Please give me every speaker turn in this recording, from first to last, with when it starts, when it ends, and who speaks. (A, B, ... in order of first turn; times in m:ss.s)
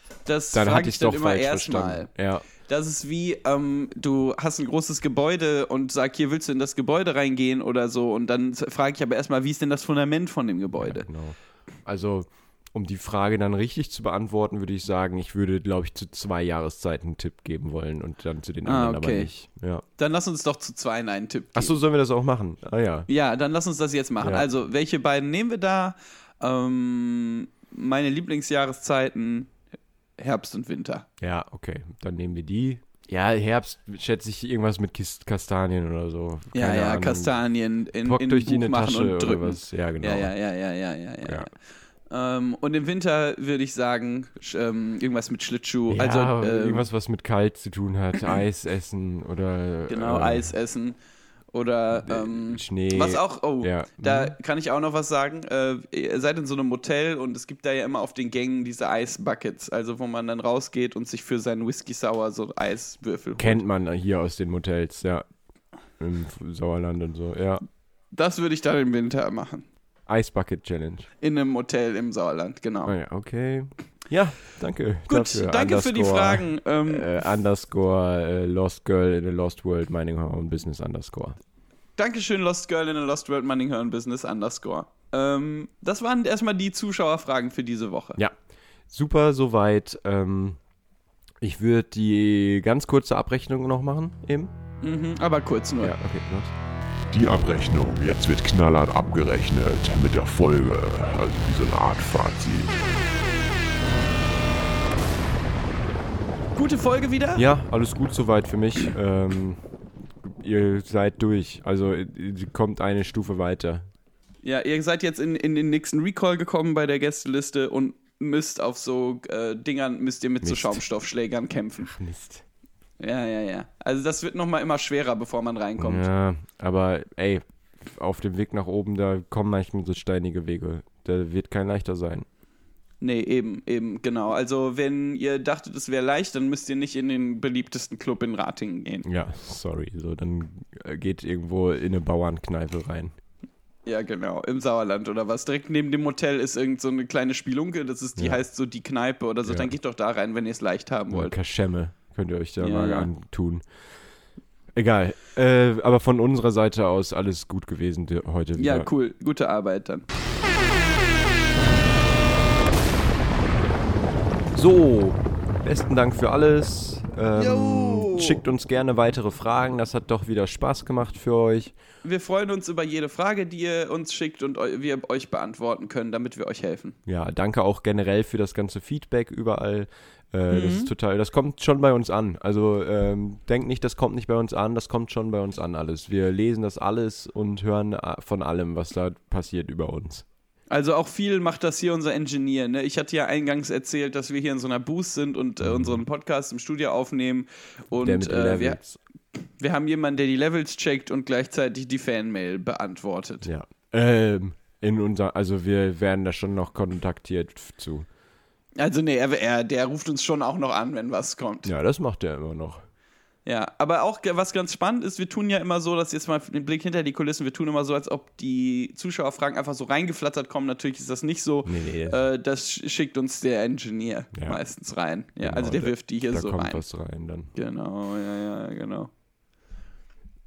0:00.2-0:02.1 A
0:00.5-0:02.4 B
0:02.6-0:11.1 A
0:10.8-0:19.8 B
0:18.6-0:19.3 A
0:20.0-0:21.8 A
0:21.5-0:23.1 B
0:23.1-0:29.5 A
0:24.2-0:24.5 B
0:30.2-0:31.0 A
0:31.2-0:37.3 B
0:36.5-0:41.5 A
0:38.0-0:40.3 B
0:42.1-0:46.9 A
0:45.9-0:50.5 B
0:49.9-0:51.0 A
0:51.5-1:03.6 A
0:52.0-0:54.3 B
1:03.4-1:05.2 B
1:06.0-1:07.6 B
1:08.1-1:09.7 A
1:10.1-1:11.1 B
1:11.2-1:12.9 A
1:12.8-1:21.4 B
1:15.1-1:17.1 A
1:22.0-1:28.2 A
1:28.9-1:30.6 B
1:31.4-1:34.5 B
1:34.8-1:35.9 A
1:35.8-1:36.5 B
1:37.1-1:42.8 C
1:46.5-1:47.4 A
1:47.4-1:49.6 B
1:50.2-1:53.9 B
1:54.4-2:01.9 A
2:00.4-2:00.8 B
2:01.8-2:02.4 B
2:03.0-2:06.0 A
2:05.8-2:12.3 B
2:13.0-2:19.0 A
2:19.0-2:23.1 B
2:23.8-2:31.4 A
2:29.4-2:29.7 B
2:31.1-2:33.6 B
2:32.6-2:33.1 A
2:34.7-2:38.9 B
2:38.6-2:40.1 A
2:44.5-2:51.7 B
2:47.4-2:48.4 A
2:52.0-2:57.0 A
2:57.1-3:10.2 B
3:00.5-3:00.9 A
3:10.7-3:18.8 A
3:15.6-3:16.0 B
3:17.9-3:19.0 B
3:19.4-3:23.5 A
3:23.4-3:28.1 B
3:28.8-3:31.7 A
3:31.6-3:32.8 B
3:33.4-3:46.8 A
3:41.6-3:42.2 B
3:44.3-3:44.6 B
3:45.4-3:47.5 B
3:47.5-3:49.1 A